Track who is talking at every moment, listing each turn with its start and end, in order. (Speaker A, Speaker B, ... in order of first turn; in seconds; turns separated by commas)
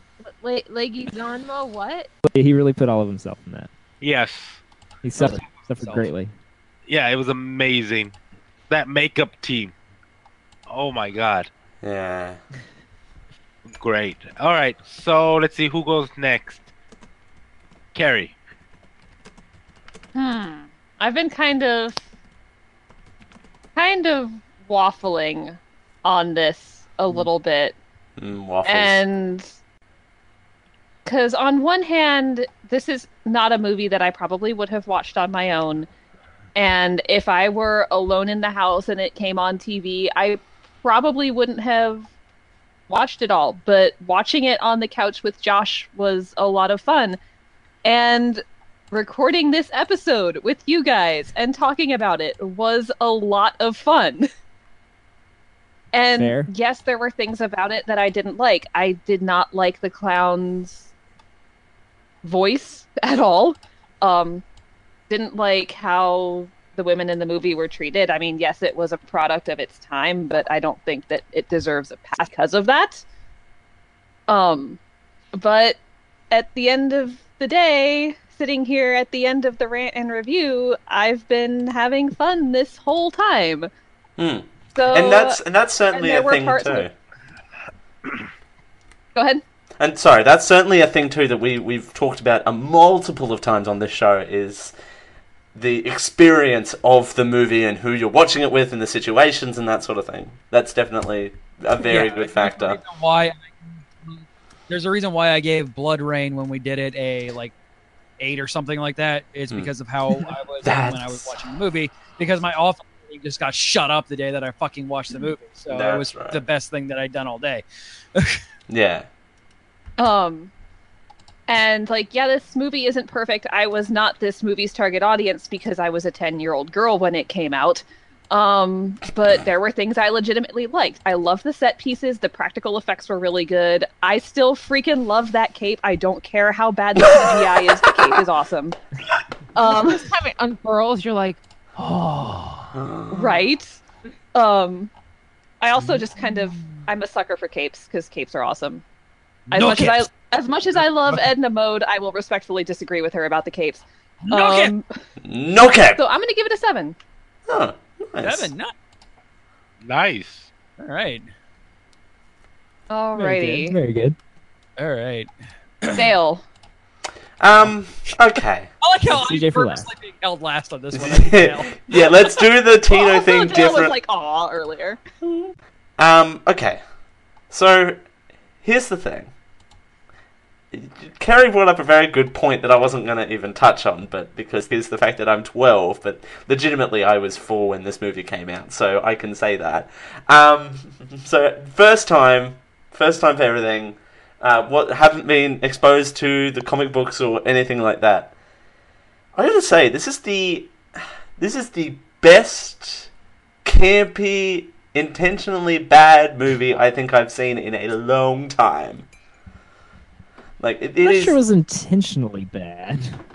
Speaker A: 0.2-2.1, Speaker B: 2.2-3.7, Speaker C: 4.0-4.6, Speaker B: 5.0-6.3, Speaker D: 5.2-6.1, Speaker C: 6.9-8.1, Speaker C: 8.7-9.7, Speaker C: 10.7-11.5, Speaker E: 11.8-12.4, Speaker C: 13.7-16.6, Speaker C: 17.9-18.3, Speaker F: 20.1-22.0, Speaker F: 23.7-27.8, Speaker E: 28.2-29.0, Speaker F: 28.6-29.5, Speaker F: 31.0-35.9, Speaker F: 36.5-42.1, Speaker F: 42.9-47.2, Speaker F: 47.8-54.3, Speaker F: 55.9-60.9, Speaker B: 56.1-56.5, Speaker F: 62.2-64.4, Speaker F: 65.1-73.0, Speaker F: 74.3-74.8, Speaker F: 75.3-75.8, Speaker F: 76.3-83.7, Speaker E: 84.2-86.9, Speaker F: 84.7-85.4, Speaker F: 85.9-86.9, Speaker F: 89.1-89.4, Speaker E: 89.8-94.7, Speaker E: 95.5-102.8, Speaker D: 101.8-107.5, Speaker D: 108.2-117.6, Speaker E: 110.6-111.3, Speaker E: 115.7-116.4, Speaker E: 118.7-119.0, Speaker F: 120.0-120.5, Speaker F: 121.5-138.8, Speaker F: 139.5-140.1, Speaker A: 139.6-141.4, Speaker B: 141.8-142.6, Speaker E: 142.7-143.4, Speaker F: 143.1-143.8, Speaker F: 144.3-144.9, Speaker F: 145.6-148.8, Speaker F: 149.5-154.8, Speaker D: 149.5-150.1, Speaker D: 154.2-154.7, Speaker E: 155.2-156.0, Speaker F: 156.0-156.9, Speaker E: 157.5-158.5, Speaker D: 158.2-158.7, Speaker C: 159.8-160.5, Speaker D: 160.8-161.3, Speaker F: 162.9-163.8, Speaker B: 163.2-164.2, Speaker D: 164.8-165.3, Speaker F: 165.9-166.4, Speaker E: 167.4-168.7, Speaker D: 168.8-171.8, Speaker B: 169.1-169.9, Speaker E: 170.9-173.9, Speaker F: 172.9-175.0, Speaker E: 175.2-176.8, Speaker E: 177.5-178.0, Speaker E: 178.6-179.3, Speaker E: 180.7-198.3, Speaker E: 199.3-200.7, Speaker E: 201.4-203.1, Speaker E: 203.6-209.1, Speaker E: 210.6-211.4, Speaker B: 211.0-213.2